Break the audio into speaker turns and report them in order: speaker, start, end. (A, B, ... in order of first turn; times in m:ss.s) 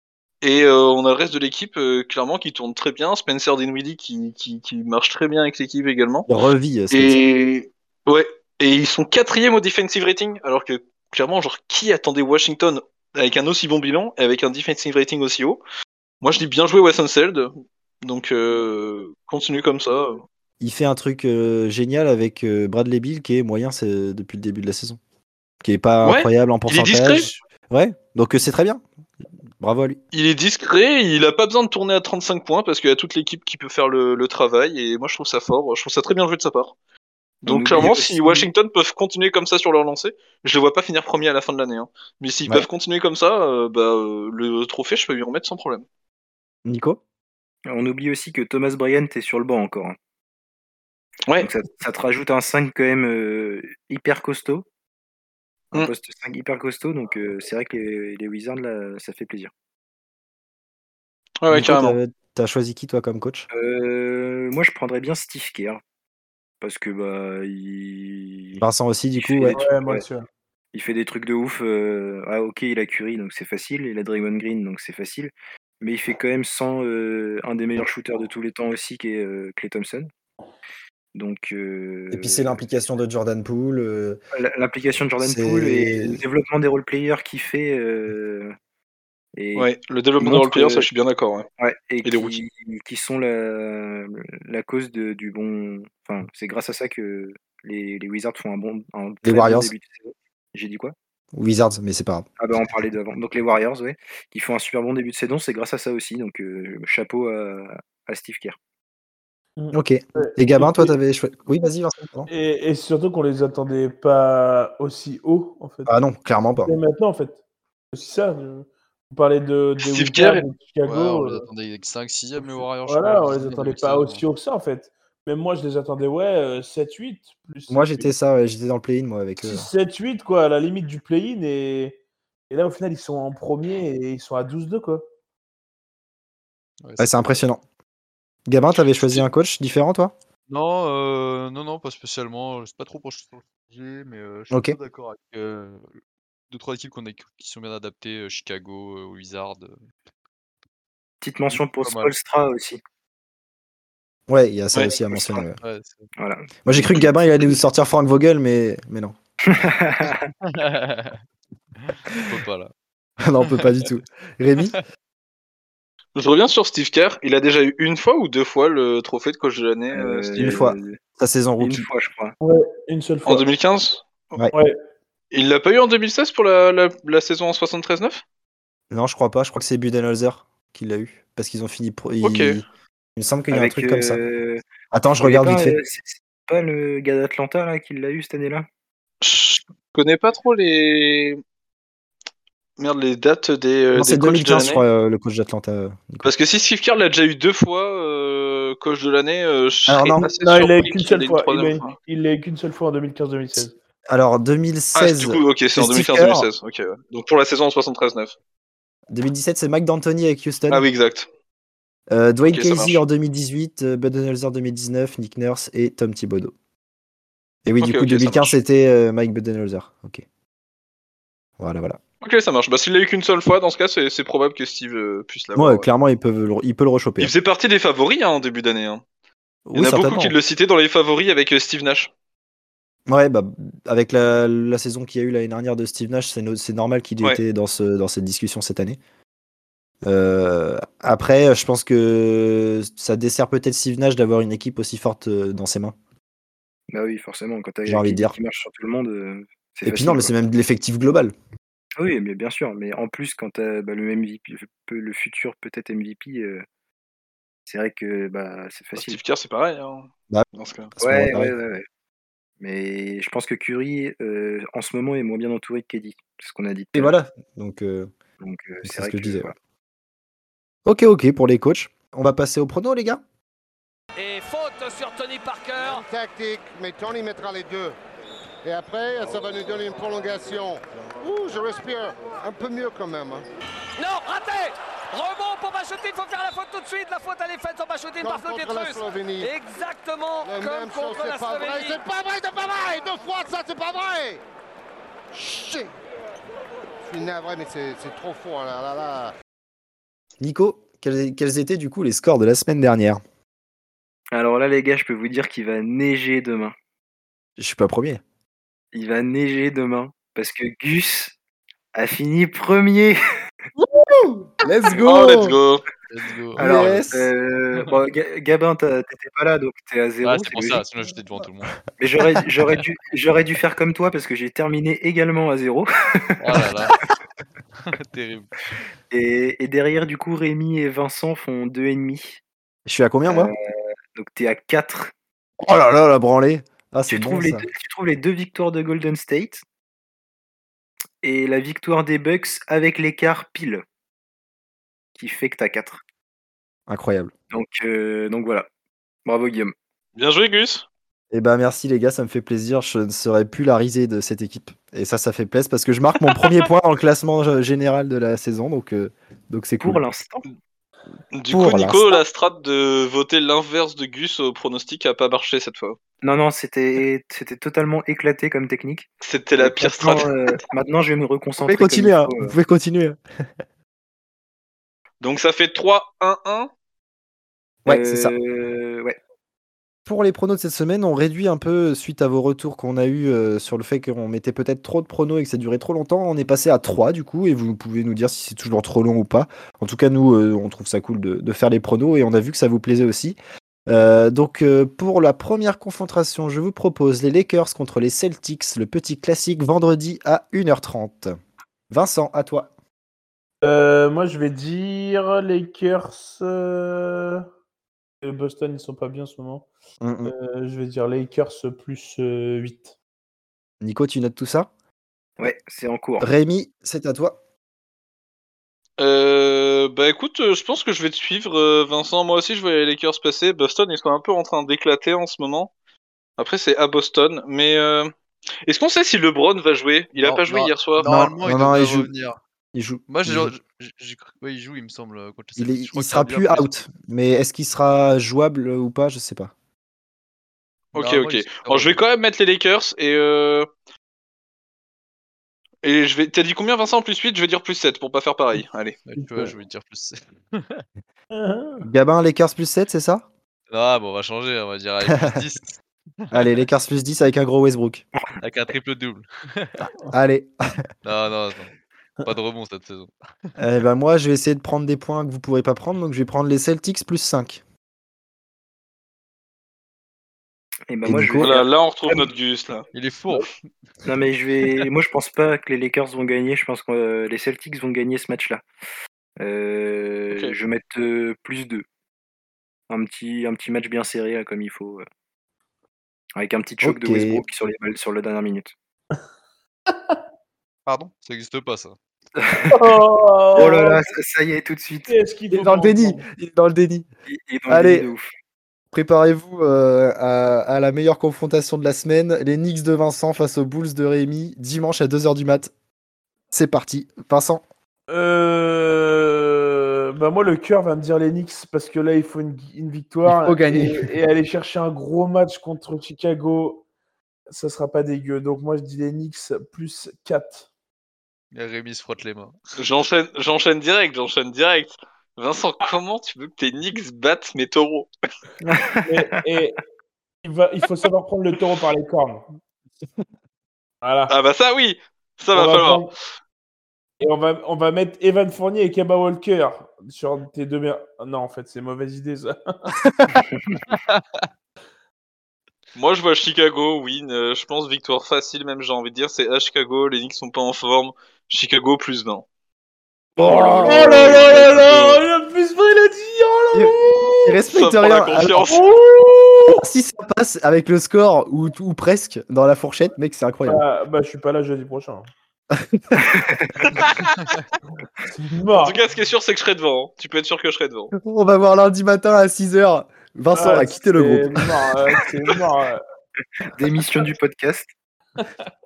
0:00.4-0:06.3 A
0:06.3-0:07.2 B
0:06.9-0:15.6 A
0:16.2-0:17.5 A
0:18.0-0:20.2 A
0:20.6-0:25.0 B
0:25.6-0:28.8 B
0:26.0-0:27.3 A
0:29.6-0:30.0 B
0:30.1-0:36.7 A
0:37.4-0:45.8 A
0:37.5-0:38.5 C
0:46.6-0:47.0 B
0:47.7-0:50.0 C
0:51.4-0:54.6 C
0:55.7-0:59.5 C
1:01.4-1:02.0 A
1:01.5-1:03.5 B
1:03.5-1:05.8 C
1:06.6-1:08.6 C
1:08.6-1:09.6 B
1:09.2-1:10.0 C
1:09.5-1:10.3 D
1:10.7-1:20.1 C
1:21.1-1:22.6 C
1:22.1-1:24.2 B
1:24.3-1:28.6 C
1:25.2-1:26.2 B
1:29.4-1:29.7 C
1:29.6-1:31.5 A
1:30.2-1:30.9 C
1:31.6-1:41.0 C
1:32.0-1:32.4 A
1:39.2-1:39.7 B
1:41.3-1:42.3 B
1:42.4-1:48.6 C
1:49.6-1:51.0 D
1:49.7-1:52.3 B
1:52.3-1:55.9 D
1:55.9-1:56.7 B
1:56.7-1:57.4 D
1:57.9-2:01.5 D
1:59.8-2:00.4 A
2:00.9-2:04.2 E
2:02.4-2:08.1 D
2:07.7-2:09.7 B
2:09.4-2:12.0 D
2:12.5-2:15.0 D
2:16.8-2:17.4 E
2:17.0-2:17.6 B
2:18.5-2:20.1 B
2:20.5-2:26.0 E
2:24.5-2:24.8 B
2:26.5-2:29.8 E
2:31.2-2:32.8 C
2:31.5-2:32.1 E
2:34.3-2:35.6 B
2:34.8-2:35.4 C
2:35.6-2:36.1 E
2:36.2-2:37.0 C
2:36.6-2:39.2 B
2:39.5-2:40.3 C
2:40.5-2:41.2 E
2:41.8-2:42.7 E
2:43.2-2:44.7 B
2:46.2-2:50.6 A
2:49.9-2:51.0 C
2:50.4-2:51.9 B
2:51.6-2:52.4 C
2:52.4-2:53.4 D
2:53.3-2:54.4 A
2:55.3-2:58.2 A
2:58.9-3:02.6 B
3:02.2-3:02.6 A
3:03.2-3:04.2 B
3:03.5-3:04.6 C
3:04.9-3:05.8 B
3:05.2-3:08.7 C
3:09.2-3:11.4 A
3:12.8-3:14.8 A
3:14.0-3:16.3 B
3:16.2-3:21.9 A
3:19.9-3:20.3 B
3:20.2-3:23.7 D
3:24.1-3:26.5 B
3:25.0-3:28.3 A
3:29.1-3:30.9 B
3:30.7-3:31.3 A
3:32.1-3:36.5 B
3:32.5-3:33.0 A
3:37.7-3:40.2 B
3:37.8-3:38.6 A
3:41.6-3:42.0 B
3:42.2-3:45.9 A
3:45.6-3:47.3 B
3:47.2-3:49.0 A
3:49.7-3:50.3 B
3:49.8-3:52.1 A
3:53.1-3:59.0 B
4:00.0-4:06.0 B
4:06.9-4:10.3 C
4:07.9-4:08.4 B
4:09.8-4:11.3 B
4:12.0-4:16.6 C
4:17.7-4:19.2 C
4:19.0-4:20.9 A
4:21.0-4:21.5 B
4:21.0-4:21.8 C
4:22.6-4:27.1 C
4:27.0-4:28.1 B
4:28.4-4:29.5 C
4:28.8-4:29.5 B
4:30.9-4:33.2 B
4:34.2-4:36.0 F
4:35.8-4:38.0 G
4:38.6-4:43.4 G
4:44.0-4:52.0 F
4:48.2-4:49.5 G
4:50.4-4:54.4 G
4:55.3-4:55.9 G
4:57.0-4:59.3 G
5:00.4-5:03.2 B
5:04.3-5:06.7 C
5:07.6-5:08.2 B
5:08.9-5:11.4 C
5:12.0-5:13.2 C
5:13.8-5:15.6 B
5:15.0-5:15.8 A
5:16.1-5:17.1 E
5:16.6-5:17.3 B
5:16.6-5:20.8 C
5:20.2-5:21.9 E
5:22.0-5:26.7 C
5:26.4-5:27.0 E
5:27.9-5:28.5 E
5:29.1-5:32.4 C
5:32.9-5:33.5 B
5:33.3-5:33.6 C
5:34.2-5:35.1 C
5:35.6-5:37.7 B
5:37.1-5:39.6 C
5:41.2-5:43.8 C
5:45.2-5:46.0 C
5:46.9-5:47.3 B
5:47.5-5:48.7 C
5:49.3-5:49.7 C
5:50.2-5:50.9 A
5:51.3-6:00.0 B
5:59.8-6:00.4 C
6:01.3-6:06.0 A
6:01.5-6:02.2 B
6:06.2-6:12.5 C
6:09.2-6:10.3 A
6:11.6-6:13.2 B
6:15.2-6:16.7 A
6:17.8-6:18.3 B
6:17.9-6:19.2 C
6:20.1-6:41.4 B
6:41.9-6:42.7 B
6:43.6-6:47.4 D
6:48.2-6:49.7 D
6:50.0-6:50.3 B
6:50.2-6:52.9 D
6:53.8-6:54.7 B
6:55.4-6:56.3 C
6:56.2-6:57.4 B
6:59.0-7:05.7 A
7:06.4-7:08.1 A
7:08.7-7:11.1 A
7:10.2-7:12.4 E
7:11.1-7:12.1 B
7:12.7-7:13.5 B
7:13.1-7:16.7 E
7:15.6-7:19.5 B
7:20.9-7:23.7 A
7:21.0-7:22.0 E
7:25.8-7:29.0 A
7:29.0-7:30.8 E
7:29.2-7:29.6 D
7:31.3-7:31.9 D
7:31.8-7:33.2 B
7:33.7-7:35.8 E
7:35.1-7:35.4 B
7:36.3-7:38.0 B
7:38.4-7:39.9 E
7:40.1-7:40.5 B
7:41.0-7:43.1 E
7:43.6-7:47.6 B
7:50.9-7:52.3 C
7:51.0-7:51.5 B
7:51.4-7:52.9 A
7:52.9-7:53.5 E
7:54.1-7:58.6 C
7:59.4-8:01.8 C
8:02.9-8:05.0 C
8:06.4-8:08.7 C
8:06.8-8:07.4 B
8:10.9-8:12.0 E
8:12.4-8:12.8 C
8:12.7-8:14.0 D
8:13.6-8:15.1 C
8:15.1-8:16.3 D
8:15.5-8:17.1 B
8:17.3-8:18.3 C
8:17.7-8:18.1 B
8:18.9-8:25.7 B
8:26.5-8:27.6 B
8:28.1-8:36.8 D
8:33.3-8:34.1 B
8:37.5-8:40.7 D
8:41.5-8:42.6 E
8:42.8-8:48.1 A
8:48.6-8:49.8 D
8:48.8-8:49.2 C
8:50.4-8:52.4 D
8:54.0-8:54.3 D
8:54.3-8:56.0 A
8:55.5-8:56.1 D
8:57.2-9:02.9 D
9:03.9-9:04.2 E
9:06.0-9:12.5 A
9:13.4-9:15.0 B
9:13.7-9:14.1 C
9:13.8-9:17.6 D
9:16.7-9:18.7 B
9:17.7-9:18.8 A
9:18.7-9:19.8 D
9:19.8-9:23.8 B
9:23.7-9:25.3 D
9:25.7-9:26.2 B
9:26.2-9:26.7 C
9:26.9-9:27.4 A
9:28.3-9:29.0 D
9:28.7-9:31.1 A
9:31.2-9:34.7 B
9:33.5-9:36.0 D
9:36.7-9:37.9 C
9:38.4-9:38.6 D